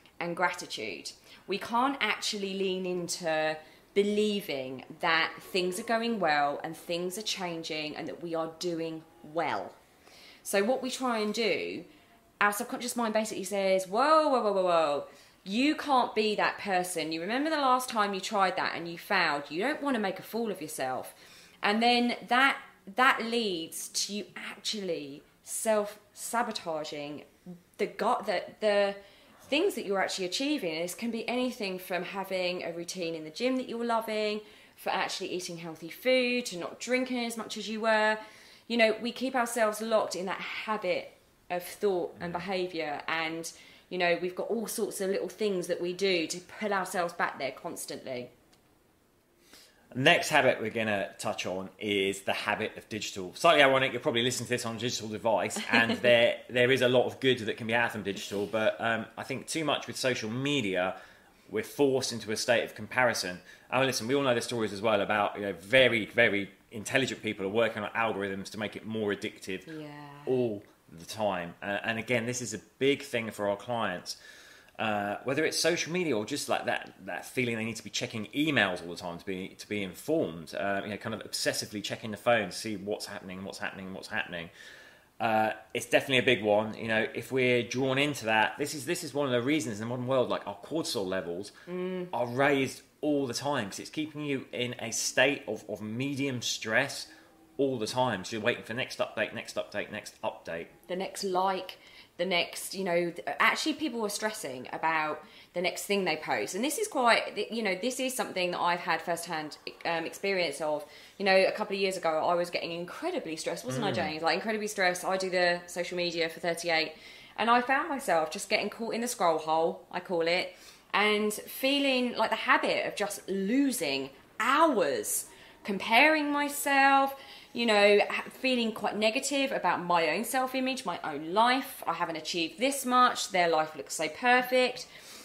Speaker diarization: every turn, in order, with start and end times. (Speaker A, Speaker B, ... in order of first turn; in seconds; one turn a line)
Speaker A: 0.2-9.8
Speaker A: 10.4-11.9
Speaker A: 12.4-48.3
Speaker B: 49.9-60.9
Speaker B: 61.5-69.7
Speaker A: 69.7-70.4
Speaker B: 70.3-74.2
Speaker B: 74.8-84.5
Speaker B: 85.2-91.5
Speaker A: 91.7-92.1
Speaker B: 92.1-100.7
Speaker A: 100.9-134.9
Speaker B: 113.7-114.1